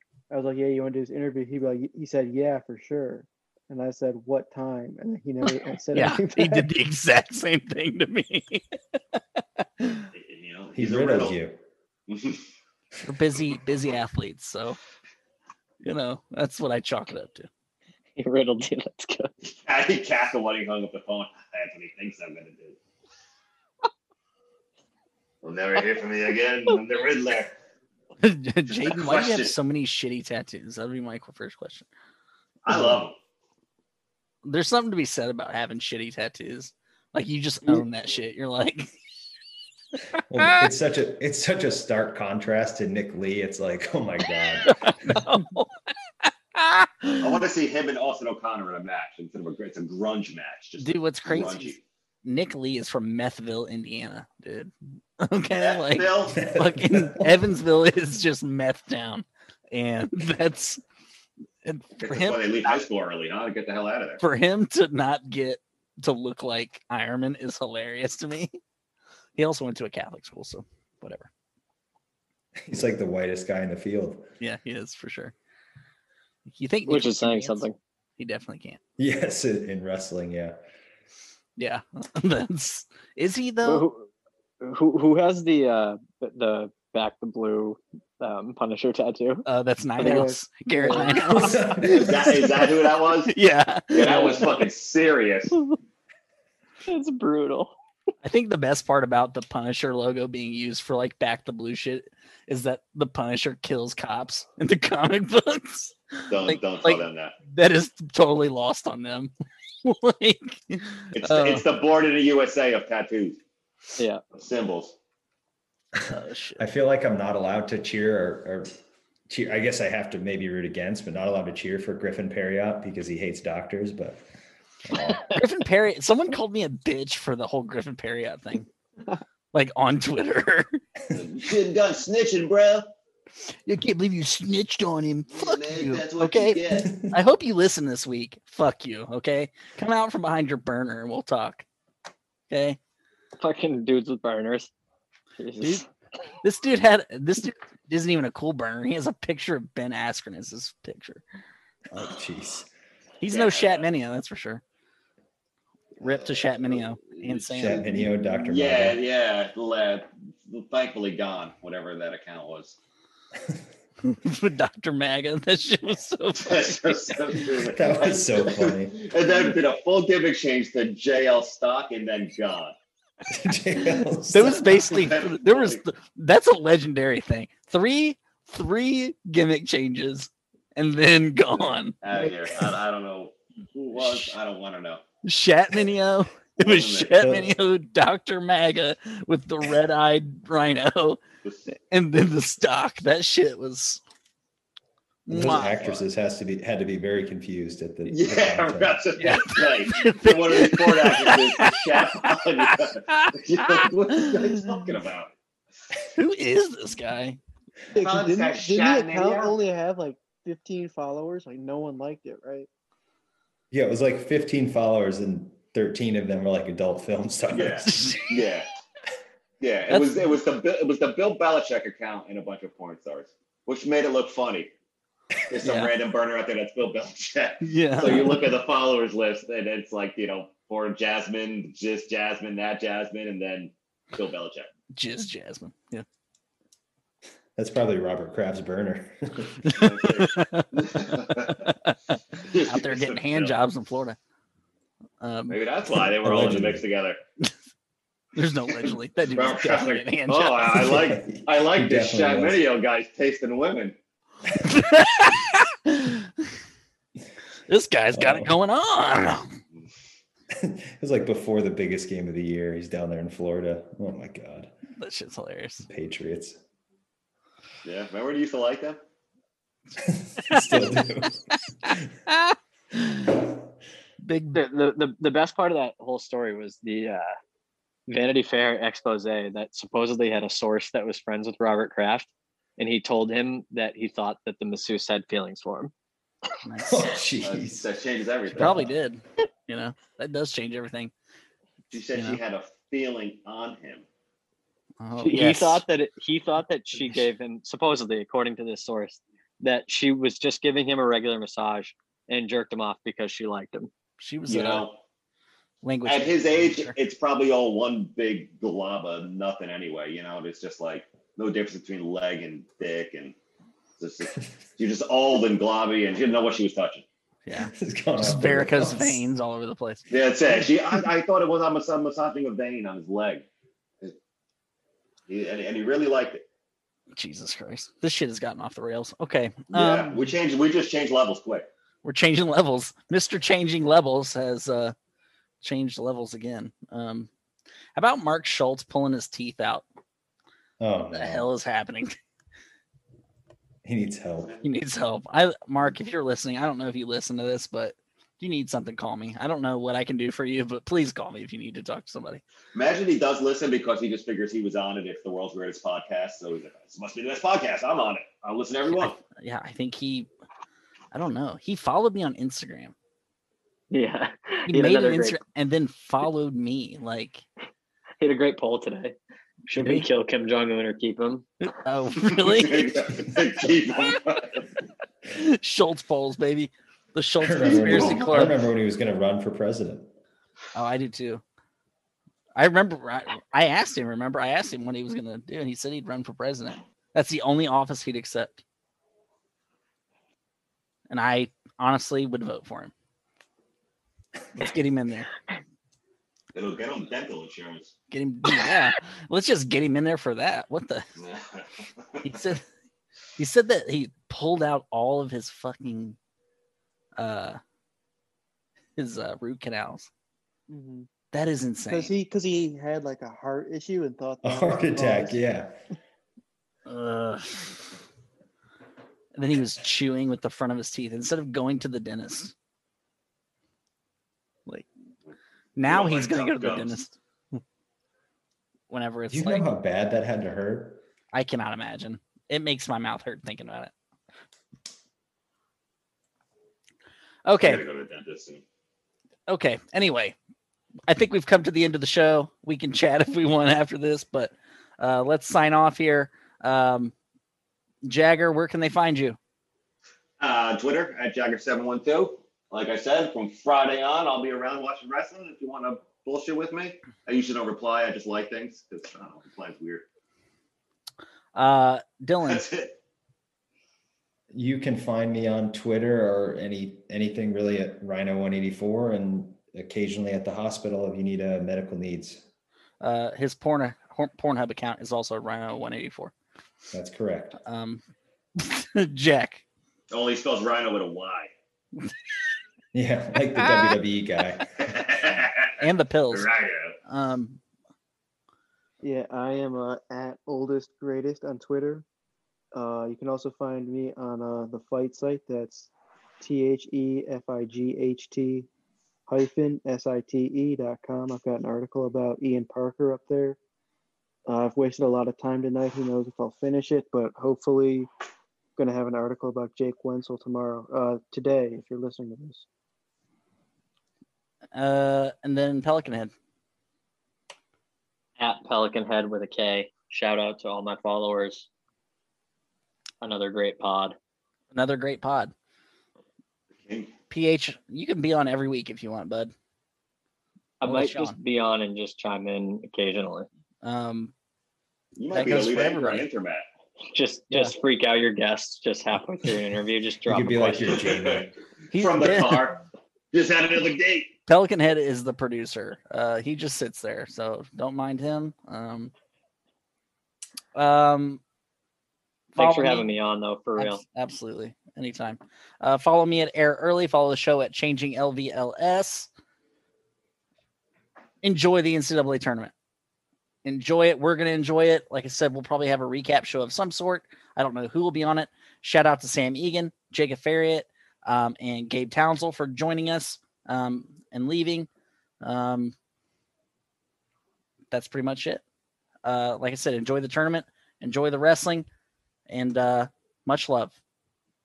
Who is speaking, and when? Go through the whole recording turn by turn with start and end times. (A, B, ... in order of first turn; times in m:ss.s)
0:00.3-0:06.7 A
0:05.9-0:08.7 B
0:09.8-0:10.0 B
0:10.1-0:11.4 C
0:10.8-0:11.6 D
0:12.1-0:12.4 C
0:13.0-0:14.8 B
0:15.8-0:17.5 B
0:18.2-0:19.3 E
0:19.4-0:22.8 C
0:25.4-0:27.5 C
0:28.2-0:31.9 B
0:28.7-0:29.6 C
0:32.6-0:33.2 C
0:34.4-0:38.9 B
0:40.3-0:45.2 D
0:40.4-0:40.6 B
0:44.6-0:45.7 B
0:46.2-0:47.4 B
0:47.2-0:51.8 C
0:50.8-1:00.8 B
0:55.6-0:56.4 C
0:56.4-0:57.4 D
1:01.6-1:02.8 B
1:02.0-1:04.2 C
1:04.2-1:08.6 B
1:09.4-1:11.3 B
1:12.6-1:14.3 D
1:14.4-1:15.3 B
1:16.5-1:17.6 B
1:16.9-1:17.8 E
1:18.2-1:18.8 B
1:19.0-1:20.6 D
1:21.6-1:23.8 B
1:23.6-1:24.1 E
1:24.6-1:29.4 E
1:29.4-1:31.7 B
1:30.0-1:31.1 A
1:31.3-1:32.3 D
1:31.8-1:33.3 C
1:33.2-1:34.3 B
1:33.9-1:35.6 C
1:34.0-1:34.4 E
1:36.9-1:37.8 E
1:38.2-1:49.3 B
1:46.3-1:47.3 C
1:49.8-1:51.6 B
1:51.1-1:53.4 C
1:54.3-1:55.0 C
1:55.9-1:58.7 D
1:56.1-1:56.7 B
1:59.3-2:04.2 D
2:04.8-2:05.4 D
2:05.2-2:08.7 B
2:09.5-2:10.8 B
2:11.1-2:12.9 C
2:13.6-2:21.6 B
2:15.3-2:16.9 C
2:16.9-2:17.1 D
2:22.5-2:22.8 B
2:23.4-2:24.7 E
2:25.4-2:25.8 E
2:25.6-2:25.8 B
2:26.4-2:31.2 B
2:31.9-2:32.7 D
2:33.2-2:34.6 B
2:33.3-2:33.8 C
2:36.0-2:42.8 C
2:36.0-2:37.8 B
2:37.6-2:39.0 D
2:44.0-2:47.4 B
2:46.4-2:52.7 C
2:47.7-2:49.1 D
2:53.3-2:54.9 D
2:54.3-3:02.0 B
2:54.6-2:55.8 C
3:02.0-3:05.0 C
3:03.9-3:04.4 B
3:05.2-3:14.0 B
3:06.6-3:07.4 C
3:07.2-3:07.5 D
3:15.3-3:16.0 B
3:15.3-3:19.0 D
3:18.1-3:25.3 C
3:19.2-3:24.6 B
3:26.1-3:27.4 B
3:27.9-3:32.7 A
3:27.9-3:29.5 C
3:33.7-3:37.9 D
3:37.5-3:38.7 C
3:37.8-3:38.5 B
3:39.6-3:44.7 C
3:39.9-3:40.2 B
3:45.5-3:54.7 C
3:45.6-3:45.9 B
3:47.6-3:48.4 B
3:54.9-3:56.0 B
3:57.6-3:59.8 D
3:59.6-4:00.8 B
3:59.7-4:01.6 C
4:01.6-4:04.2 B
4:02.4-4:03.6 C
4:05.2-4:05.6 B
4:05.5-4:07.2 C
4:06.2-4:06.8 D
4:08.4-4:11.1 B
4:08.7-4:14.0 C
4:10.9-4:12.6 D
4:14.6-4:16.3 B
4:17.7-4:19.5 B
4:18.1-4:18.5 D
4:20.5-4:24.7 D
4:25.0-4:25.8 B
4:25.8-4:26.6 D
4:27.8-4:29.0 C
4:30.0-4:32.0 D
4:31.8-4:33.4 B
4:34.2-4:34.6 B
4:34.5-4:37.2 E
4:38.1-4:45.9 E
4:46.6-4:47.0 B
4:46.9-4:47.8 D
4:47.4-4:48.8 C
4:48.5-4:51.1 B
4:48.6-4:48.9 D
4:51.9-4:54.0 C
4:52.1-4:52.4 B
4:55.0-4:55.8 B
4:55.2-5:03.9 E
5:04.2-5:04.8 B
5:04.5-5:05.0 C
5:05.8-5:06.9 B
5:06.0-5:13.4 C
5:14.0-5:17.0 C
5:17.4-5:20.1 B
5:17.7-5:19.2 D
5:20.1-5:23.4 C
5:25.3-5:26.4 C
5:27.1-5:30.2 B
5:29.7-5:31.7 C
5:32.0-5:34.9 B
5:35.6-5:37.3 B
5:38.0-5:39.8 B
5:40.8-5:41.5 D
5:41.1-5:42.2 B
5:43.8-5:44.5 D
5:44.6-5:52.4 B
5:52.7-5:59.2 C
5:58.9-6:00.3 B
6:01.1-6:02.9 B
6:03.9-6:05.4 E
6:04.7-6:07.4 B
6:08.2-6:09.1 E
6:09.6-6:11.5 E
6:09.8-6:10.1 B
6:11.6-6:12.9 B
6:12.3-6:14.6 C
6:15.3-6:18.6 B
6:17.4-6:20.1 D
6:17.6-6:18.4 C
6:20.7-6:21.4 B
6:22.6-6:28.6 B
6:31.1-6:32.9 B
6:34.6-6:35.3 B
6:36.5-6:37.9 C
6:38.1-6:41.0 B
6:41.2-6:42.4 C
6:42.2-6:42.6 B
6:43.4-6:46.2 B
6:47.2-6:47.6 B
6:49.0-6:50.1 B
6:50.7-6:51.1 A
6:51.3-6:52.1 B
6:51.9-6:55.4 A
6:54.4-6:55.8 D
6:56.9-6:57.8 B
6:59.4-7:02.5 B
7:05.8-7:07.6 B
7:05.8-7:07.0 C
7:08.9-7:09.7 B
7:09.3-7:11.0 D
7:11.3-7:13.9 B
7:17.4-7:17.8 B
7:17.6-7:18.6 C
7:19.5-7:20.3 B
7:21.1-7:27.1 B
7:28.0-7:29.4 B
7:30.4-7:40.0 C
7:41.5-7:42.7 B
7:42.4-7:42.9 C
7:44.5-7:52.4 D
7:53.0-7:56.3 B
7:56.9-7:57.6 D
7:57.6-7:58.0 B
7:58.6-7:59.6 B
8:00.1-8:01.5 C
8:02.9-8:05.1 D
8:04.8-8:07.0 C
8:05.8-8:06.5 B
8:07.0-8:07.6 B
8:09.0-8:12.0 A
8:12.7-8:18.7 A
8:19.3-8:23.6 A
8:24.4-8:28.1 A
8:28.8-8:32.6 A
8:34.7-8:36.3 B
8:38.4-8:41.7 E
8:43.2-8:44.1 E
8:44.7-8:45.5 B
8:46.8-8:47.1 C
8:47.3-8:49.5 B
8:50.8-8:53.5 E
8:50.8-8:51.4 B
8:53.8-8:54.3 B
8:55.2-8:56.6 C
8:55.3-8:56.2 B
8:57.1-9:01.0 E
9:00.2-9:01.6 D
9:00.9-9:04.3 C
9:01.9-9:02.7 B
9:04.5-9:09.1 B
9:10.7-9:11.4 B
9:12.6-9:14.0 E
9:12.6-9:13.1 B
9:13.8-9:19.3 B
9:21.4-9:22.7 B
9:23.6-9:34.9 B
9:35.4-9:35.9 B
9:37.9-9:38.6 B
9:39.2-9:41.9 B
9:42.5-9:44.0 B